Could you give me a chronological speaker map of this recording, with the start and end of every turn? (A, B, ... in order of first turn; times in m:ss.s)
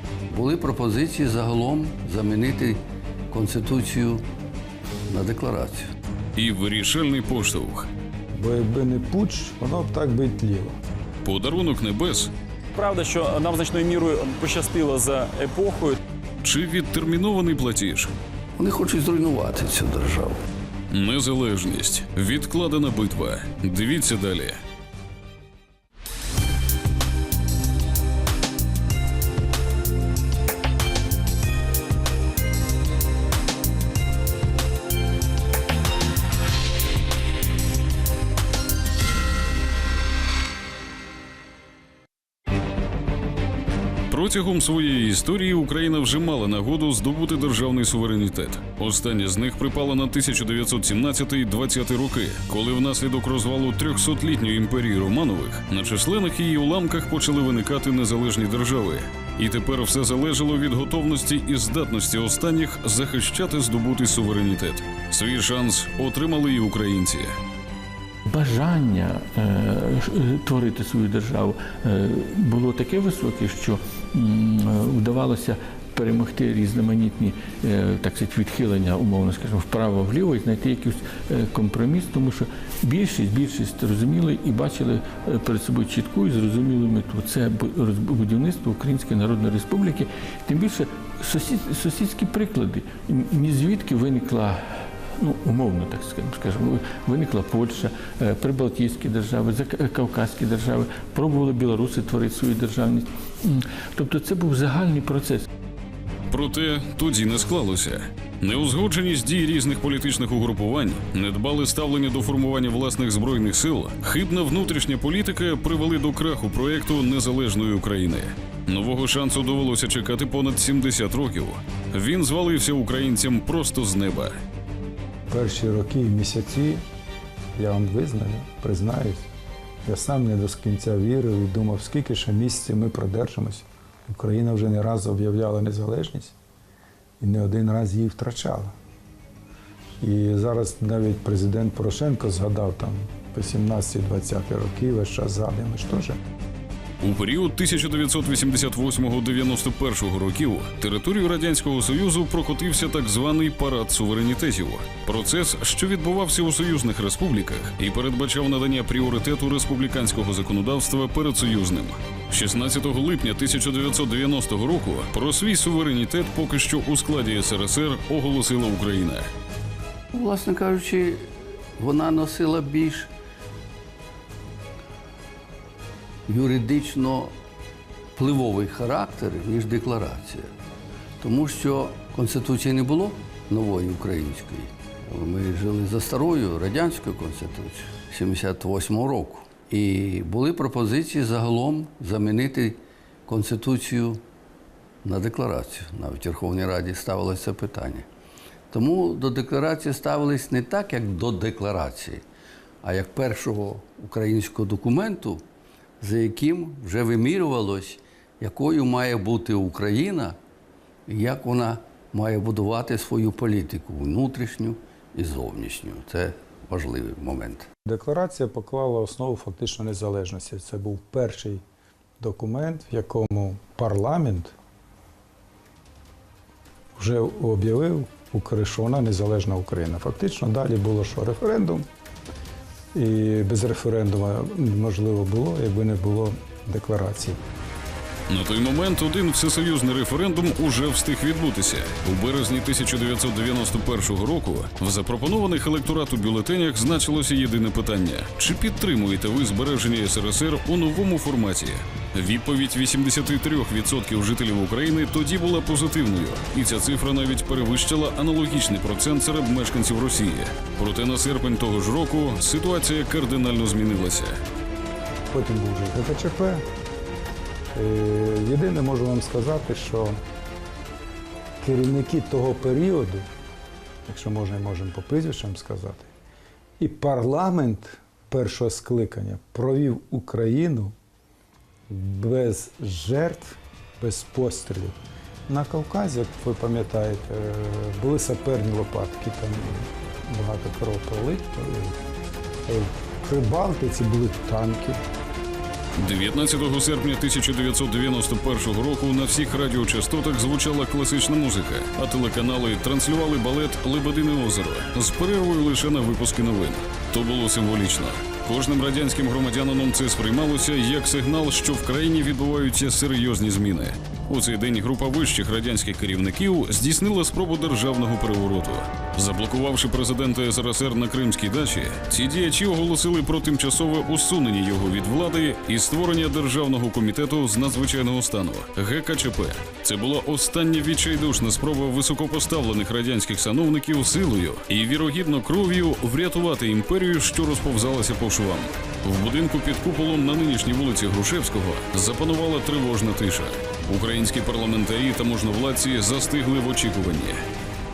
0:00.3-0:04.2 A
0:05.1-0:05.9 A
0:06.4-0:07.9 B
0:08.3-0:10.8 C
0:11.2-0:12.3 B
0:12.8-0:16.0 D
0:16.4-0:18.1 B
0:18.6-0:20.4 A
0:20.9-0:24.6 B
0:44.1-1:07.3 B
1:08.3-1:45.5 E
1:46.3-2:04.4 B
2:05.3-2:06.8 C
2:07.6-2:09.3 C
2:09.9-2:16.4 C
2:17.2-2:18.7 C
2:20.0-2:26.2 C
2:27.0-2:49.3 B
2:50.1-2:53.1 A
2:56.3-2:57.3 A
2:58.2-3:00.5 A
3:01.2-3:14.2 A
3:15.0-3:18.1 A
3:18.7-3:22.2 A
3:22.8-3:25.4 A
3:26.0-3:30.4 A
3:31.1-3:37.7 A
3:37.8-3:41.6 C
3:42.2-3:44.6 C
3:47.0-3:51.9 C
3:52.9-3:57.4 C
3:58.3-4:24.4 B
4:25.3-4:26.7 C
4:27.7-4:30.2 C
4:31.6-4:33.3 C
4:34.0-4:36.1 C
4:36.8-4:40.9 C
4:41.9-4:45.0 C
4:45.5-4:52.0 C
4:52.7-4:55.0 C
4:56.0-5:47.4 B